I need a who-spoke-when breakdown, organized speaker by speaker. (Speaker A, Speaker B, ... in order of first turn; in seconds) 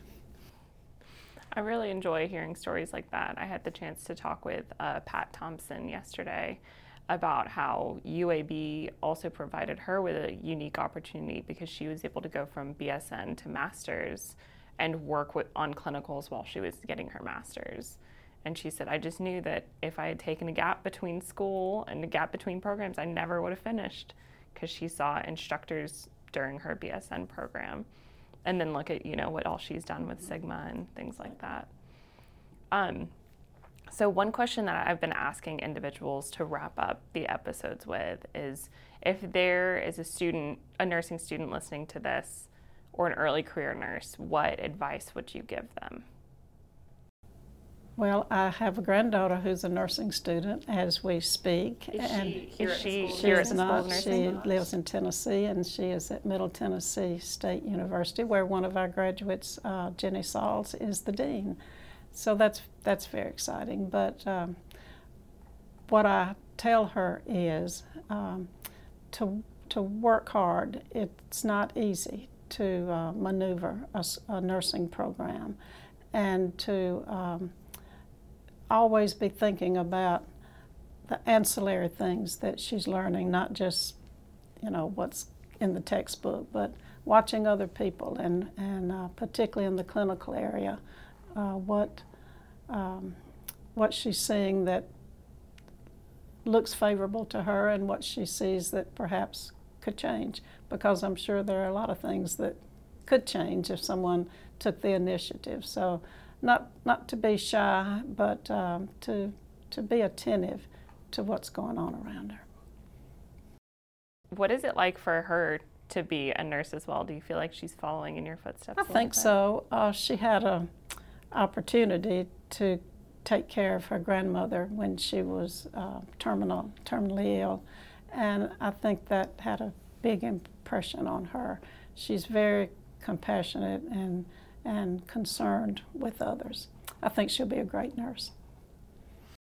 Speaker A: 1.5-27.9, 28.4-31.7, 32.7-33.1, 33.9-46.0, 52.0-54.5, 114.3-119.3
Speaker B: 48.0-61.6, 62.1-64.5, 65.9-68.5, 69.1-75.6, 76.1-77.5, 78.7-80.2, 81.1-84.0, 84.6-90.8, 91.3-92.0, 92.7-93.2, 93.7-94.9, 96.4-112.4, 118.8-120.7, 121.3-138.3